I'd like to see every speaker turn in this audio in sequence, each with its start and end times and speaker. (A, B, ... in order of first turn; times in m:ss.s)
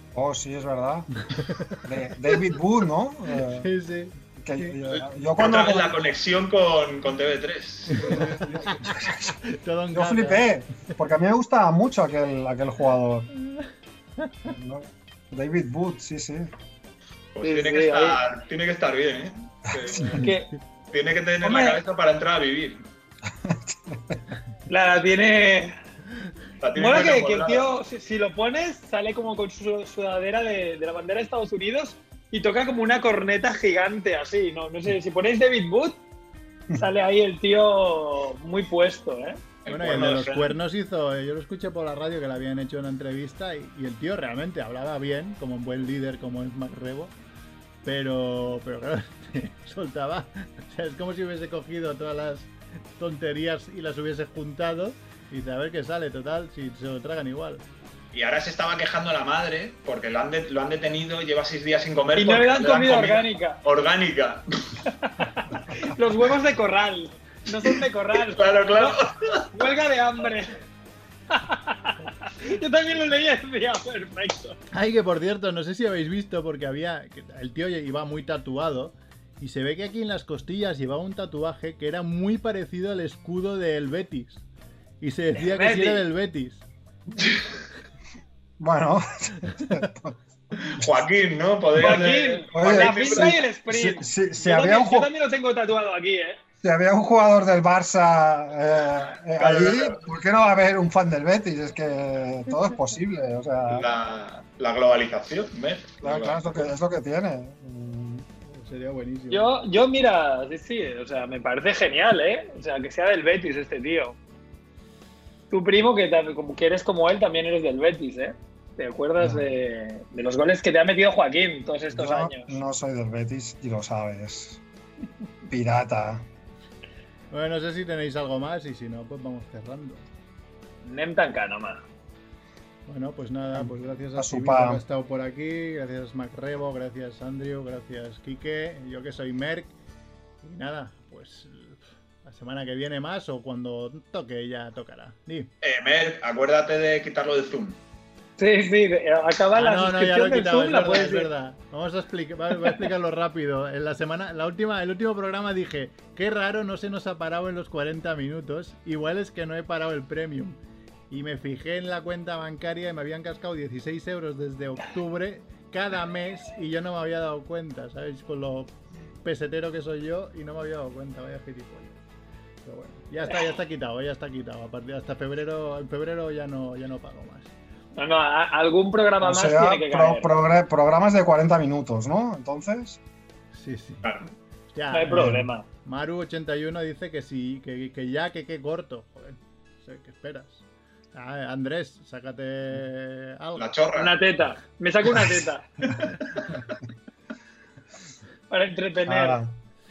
0:00.1-0:01.2 A
0:01.3-0:01.8 B
0:01.8-0:03.7 A
0:03.5-0:04.7 B
0:04.4-0:06.0 A
0:04.9-0:08.4 C
0:07.9-0:10.9 B
0:08.1-0:09.4 A
0:09.9-0:13.3 A
0:14.2-0:14.5 B
0:14.5-0:16.5 A
0:17.3-0:20.3 C
0:17.4-0:18.2 D
0:19.7-0:20.0 A
0:20.0-0:20.3 B
0:20.2-0:20.5 D
0:20.9-0:22.8 C
0:21.4-0:21.8 D
0:23.3-0:24.2 A
0:24.7-0:25.7 D
0:26.6-0:27.6 C
0:26.7-0:36.0 D
0:36.7-0:39.4 D
0:39.6-0:40.6 C
0:39.7-0:47.1 B
0:47.8-0:57.6 B
0:58.1-1:04.8 C
1:02.2-1:03.6 D
1:05.8-1:09.0 D
1:08.2-1:09.5 C
1:09.5-1:10.6 D
1:11.3-1:14.6 D
1:14.7-1:24.4 B
1:25.0-1:26.6 B
1:25.4-1:26.0 D
1:28.6-1:30.2 A
1:30.6-1:33.4 C
1:31.7-1:36.4 D
1:32.5-1:35.1 A
1:36.6-1:43.8 A
1:39.4-1:40.0 C
1:43.7-1:46.4 C
1:46.0-1:48.2 A
1:48.4-1:49.5 B
1:49.3-1:54.2 D
1:55.5-2:02.6 D
1:59.2-1:59.4 A
2:01.9-2:04.6 A
2:05.5-2:06.3 A
2:07.3-2:10.0 B
2:10.8-2:11.8 D
2:12.8-2:19.8 B
2:13.5-2:14.8 A
2:20.4-2:25.5 B
2:25.6-2:27.8 C
2:28.4-2:31.3 D
2:29.5-2:40.6 B
2:41.1-2:52.0 B
2:52.6-2:57.5 B
2:58.0-3:00.3 D
2:59.2-3:03.0 A
3:03.5-3:04.0 B
3:04.7-3:13.7 B
3:04.9-3:05.6 D
3:13.6-3:14.2 C
3:13.9-3:15.7 D
3:15.8-3:16.7 C
3:18.5-3:19.4 D
3:19.0-3:19.6 A